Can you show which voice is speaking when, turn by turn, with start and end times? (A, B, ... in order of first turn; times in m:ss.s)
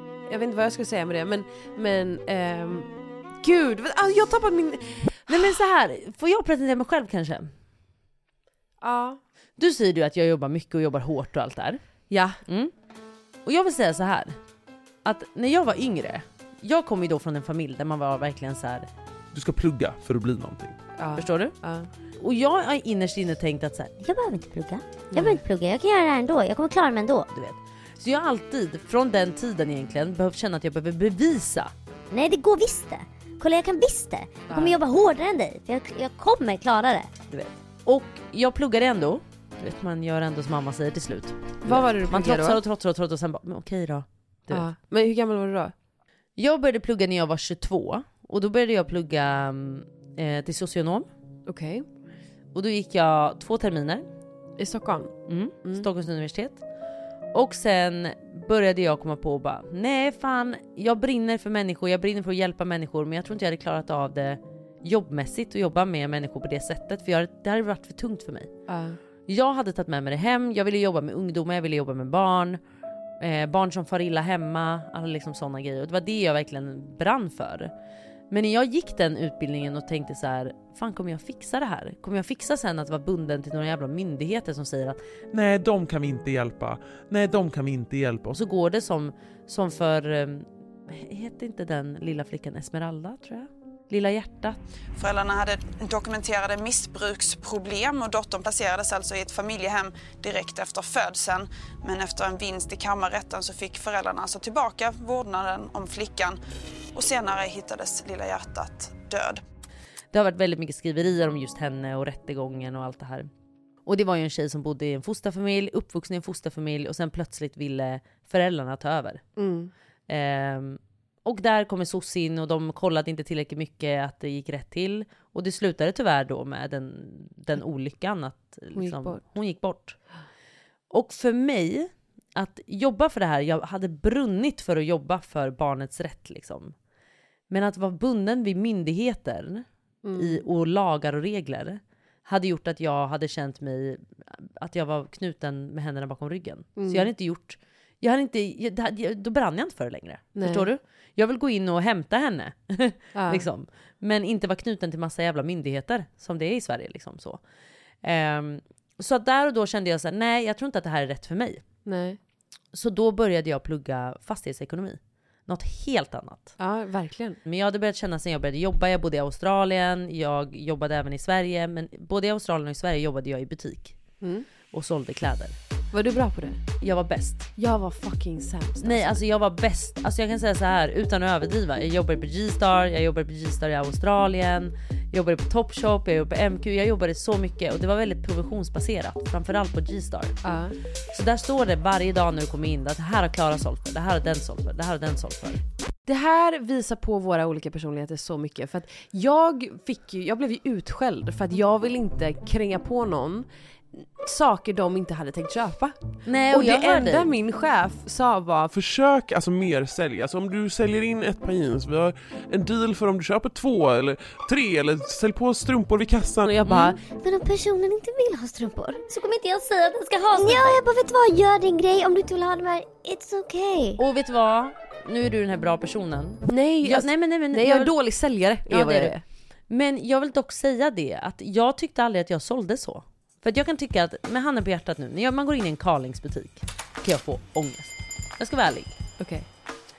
0:00.3-0:05.6 A
0:05.3-0:07.5 B
0:08.8-0:09.2 A
0:09.6-0:11.8 B
0:12.1-0:12.4 A
0:13.5-0:14.4 B
0:15.0-0:18.9 B
0:19.3-0:20.8 C
0:21.0-0:21.9 A
0:21.2-0:21.6 B
0:22.2-0:23.9 B
0:24.0-0:27.3 D
0:25.1-0:25.4 A
0:27.3-0:31.7 B
0:32.1-0:37.1 D
0:34.5-0:34.8 A
0:37.3-0:44.7 B
0:41.6-0:42.6 A
0:44.5-0:45.7 A
0:46.4-0:51.1 B
0:51.5-0:51.8 A
0:52.5-0:54.1 B
0:54.6-0:55.1 A
0:55.3-0:56.6 B
0:57.3-1:08.5 B
1:08.7-1:09.0 A
1:09.3-1:12.6 B
1:13.2-1:17.7 B
1:18.3-1:25.0 B
1:25.3-1:28.3 C
1:28.3-1:34.6 B
1:35.0-1:46.4 E
1:46.9-1:49.4 E
1:50.1-1:53.3 B
1:53.9-1:59.2 B
1:59.4-1:59.7 A
2:00.1-2:10.0 B
2:08.8-2:09.2 A
2:10.9-2:16.7 B
2:17.5-2:19.6 B
2:20.0-2:20.4 A
2:20.2-2:37.4 B
2:26.8-2:27.1 A
2:30.4-2:30.7 A
2:33.2-2:33.4 A
2:38.0-2:41.6 B
2:41.9-2:42.2 A
2:42.7-2:46.5 B
2:46.6-2:47.4 A
2:47.5-2:54.0 B
2:54.2-2:54.5 A
2:54.7-2:55.6 B
2:55.9-2:56.6 A
2:56.8-2:57.5 B
2:57.6-2:59.2 A
2:58.8-3:10.4 B
3:10.4-3:10.8 A
3:11.1-3:15.6 B
3:16.1-3:26.0 A
3:26.3-3:27.3 B
3:26.5-3:28.7 A
3:28.7-3:36.6 C
3:36.4-3:37.0 A
3:36.7-3:36.9 B
3:37.0-3:44.0 D
3:44.0-3:47.9 B
3:46.5-3:49.2 A
3:48.7-3:49.1 B
3:49.7-3:59.0 B
3:59.2-3:59.5 A